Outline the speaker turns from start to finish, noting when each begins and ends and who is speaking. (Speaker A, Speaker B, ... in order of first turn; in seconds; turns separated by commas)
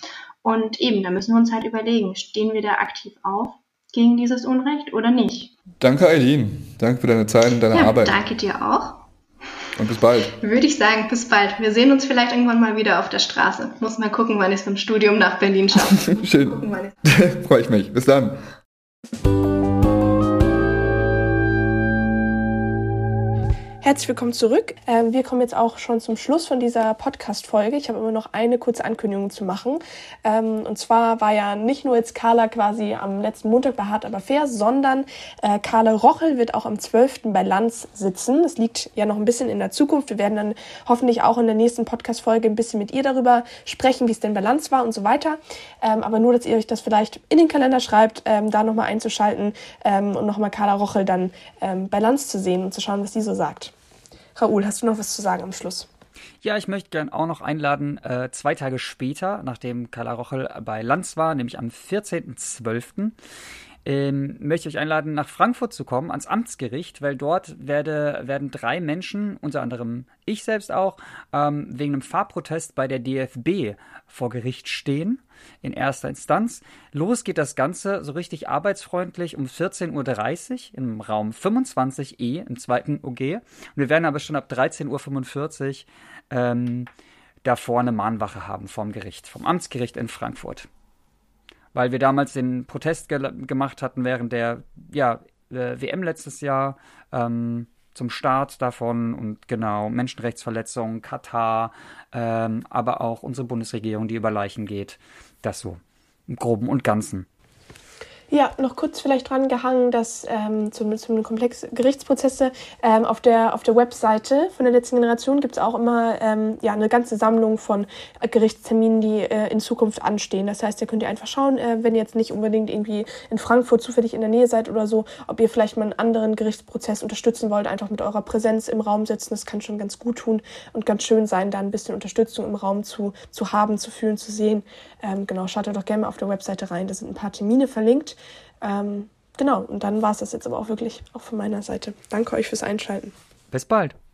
Speaker A: 0.4-5.5, Speaker B: 5.8-8.2, Speaker A: 7.7-9.0, Speaker B: 9.8-10.4, Speaker A: 10.3-16.9, Speaker B: 16.2-18.4, Speaker C: 23.8-53.7, Speaker C: 54.4-55.9, Speaker D: 56.4-63.1, Speaker D: 63.9-86.9, Speaker D: 87.4-90.7, Speaker D: 91.7-107.3, Speaker C: 108.3-143.1, Speaker D: 143.5-144.0